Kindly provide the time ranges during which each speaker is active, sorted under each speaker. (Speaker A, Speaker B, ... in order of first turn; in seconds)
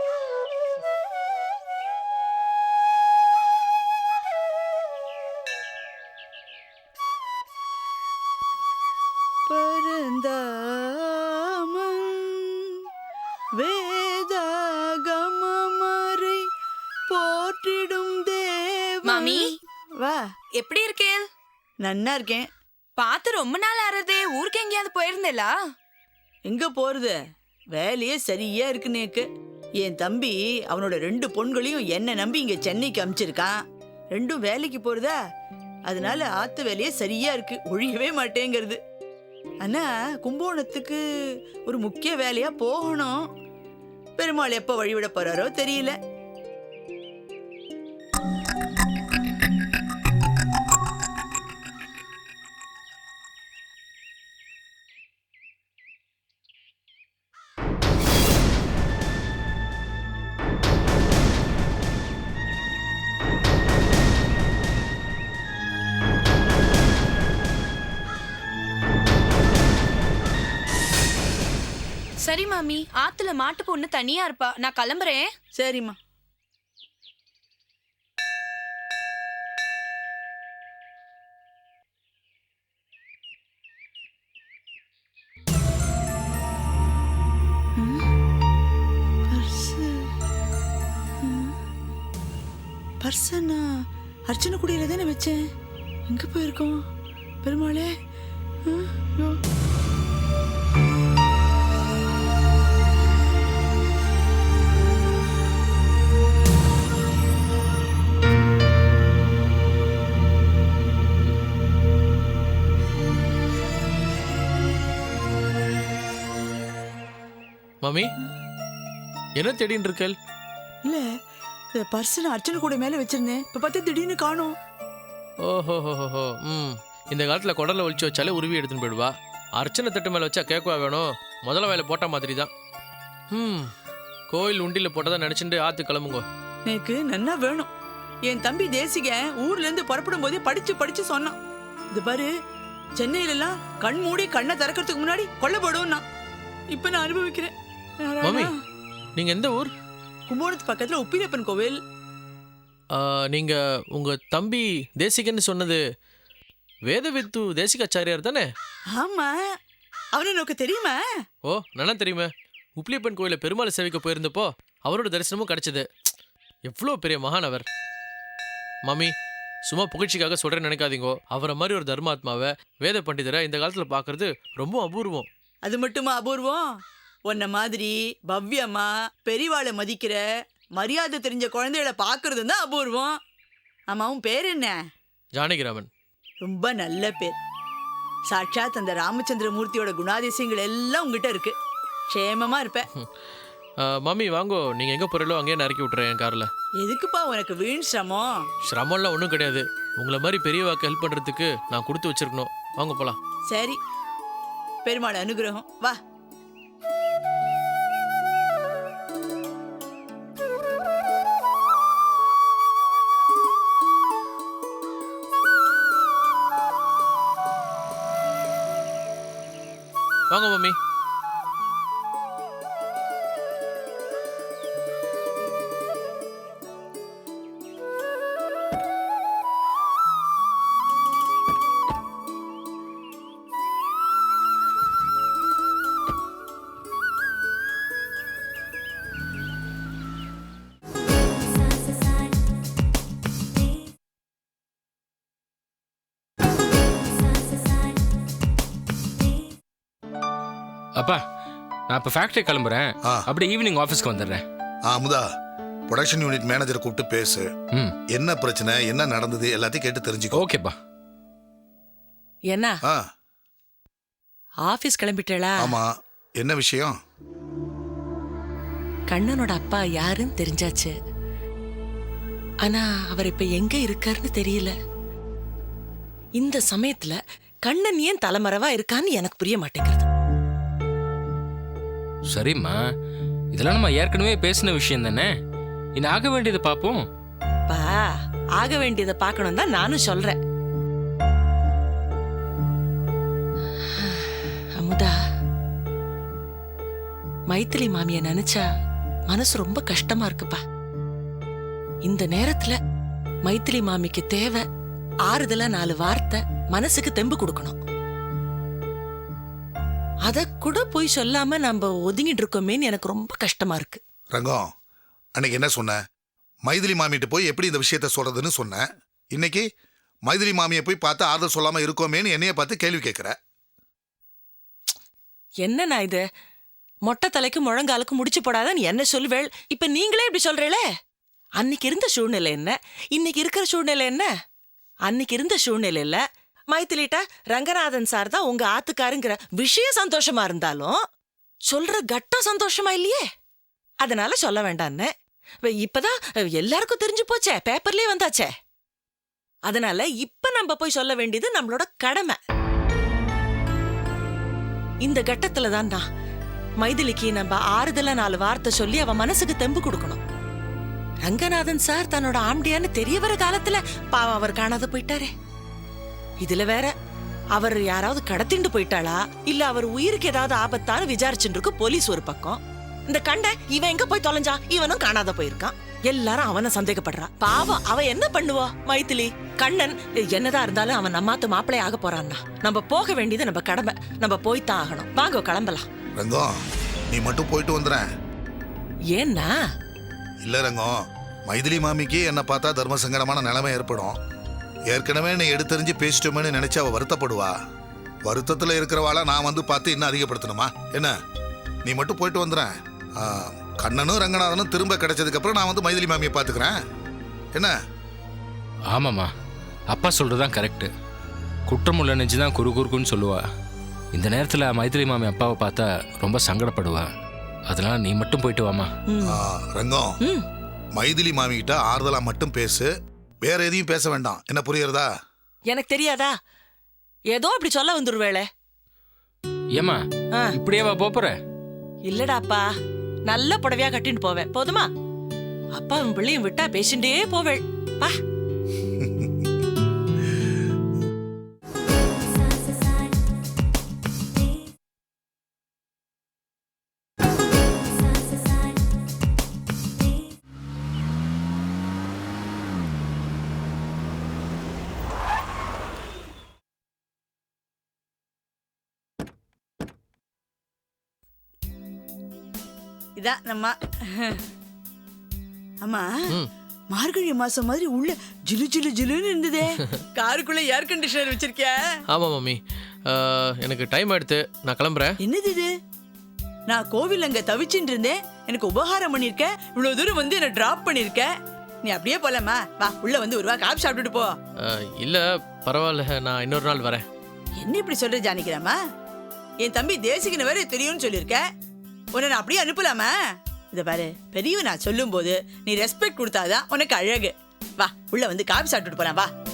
Speaker A: 9.5-12.8, 13.6-16.4, 17.1-19.4, 21.8-22.5, 26.5-27.1, 27.7-29.3, 29.8-33.5, 34.1-35.1, 35.9-38.8, 39.6-41.0, 41.7-43.2, 44.2-46.0, 75.6-76.0, 87.8-88.0, 89.3-90.0, 91.2-91.5, 93.0-93.7, 94.3-95.4, 96.1-96.8, 97.4-97.9, 98.7-99.4, 121.8-124.5, 136.7-137.7, 138.3-141.4, 141.9-142.3, 143.0-146.0, 146.7-147.5, 148.1-148.6, 150.3-151.8, 158.9-159.4, 160.2-161.0, 175.7-176.7, 177.3-180.2, 180.8-183.2, 183.9-184.8, 186.4-187.4, 188.3-191.5, 192.1-192.8, 196.8-198.3, 203.5-203.8, 204.8-206.0, 463.2-464.4, 465.8-466.1, 466.9-471.8, 475.2-475.7, 476.7-481.3, 481.9-484.3, 487.6-488.8, 489.6-491.4, 492.1-493.1, 493.7-499.3
Speaker B: 19.1-19.6, 20.5-21.3, 23.0-25.6, 72.2-75.3
Speaker C: 117.8-118.1, 119.4-120.2, 125.5-132.5, 133.3-133.7, 134.3-136.2, 148.3-148.5, 149.2-149.7, 153.0-155.8, 156.9-158.5, 161.5-165.9, 166.7-167.7, 168.9-169.1, 169.7-175.3, 185.4-185.9, 193.9-196.5, 198.7-203.2, 220.3-220.8, 472.1-475.1, 484.7-487.1
Speaker D: 251.9-254.4, 260.3-260.8, 282.3-282.8, 283.5-285.3, 286.0-287.1, 408.9-409.3, 409.9-410.9, 411.7-413.4, 414.1-417.1, 417.7-418.9, 429.8-430.0, 430.5-431.4
Speaker E: 254.9-255.2, 255.9-257.5, 258.1-260.4, 265.6-265.9, 266.4-267.0, 314.3-314.7, 315.4-316.0, 316.7-319.6, 320.3-323.4, 386.2-388.1, 390.4-394.2, 394.9-397.6, 398.2-401.1, 401.9-406.8, 419.2-420.1, 421.0-422.9, 423.4-425.1
Speaker F: 262.5-262.8, 264.7-265.8, 269.1-271.0, 272.6-274.7, 276.4-280.1, 287.7-290.4, 294.0-295.2, 297.5-298.7, 299.3-300.6, 302.1-302.8, 303.5-304.6, 305.3-307.8, 310.3-314.0, 325.6-326.2, 327.1-330.9, 331.6-334.3, 335.1-341.0, 341.7-343.3, 344.0-345.1, 345.6-348.5, 349.7-352.4, 355.0-356.1, 356.8-360.2, 361.2-365.3, 366.4-366.9, 367.6-385.9, 389.1-389.6, 419.1-419.4, 425.7-426.4, 427.3-428.5, 432.1-432.7, 433.3-434.9, 435.8-438.2